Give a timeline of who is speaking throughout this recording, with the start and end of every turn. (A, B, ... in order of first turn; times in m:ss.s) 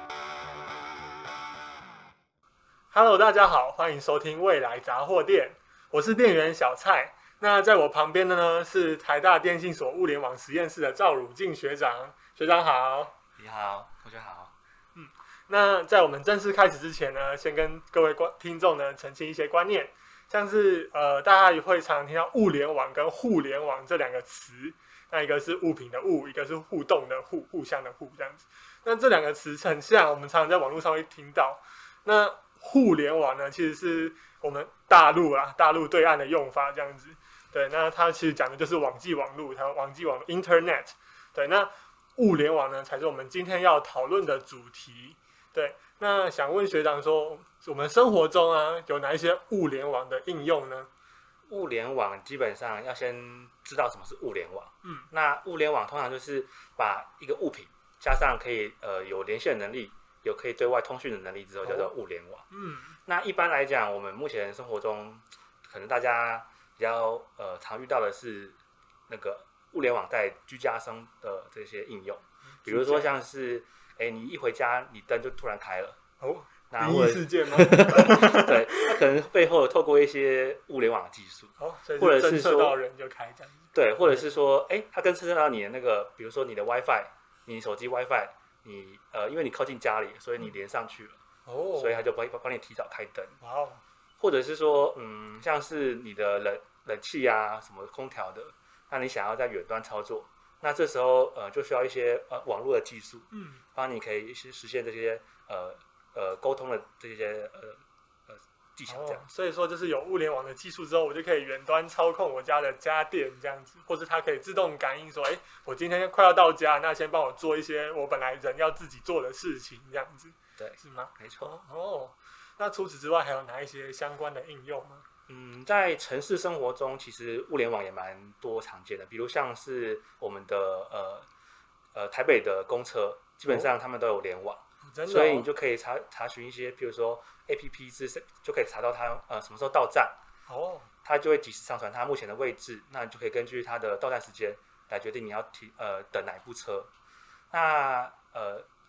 0:02.9-0:13.1 A
0:13.4-0:14.5 B
0:14.9-0:50.9 A
0:51.5-1:02.5 B
0:54.8-0:55.1 A
1:01.6-1:01.9 A
1:02.5-1:03.0 A
1:03.0-1:16.0 B
1:12.6-1:13.1 A
1:16.2-1:19.0 A
1:16.7-1:22.8 B
1:21.6-1:24.2 A
1:23.7-1:31.2 B
1:31.4-1:32.0 A
1:31.8-1:33.4 B
1:33.4-1:33.8 A
1:34.2-1:49.2 B
1:43.3-1:43.6 A
1:48.9-2:05.0 A
2:00.6-2:01.5 B
2:05.3-2:11.3 B
2:11.9-2:20.2 B
2:14.8-2:15.5 A
2:20.5-2:20.9 A
2:21.0-2:26.9 B
2:27.5-2:28.7 B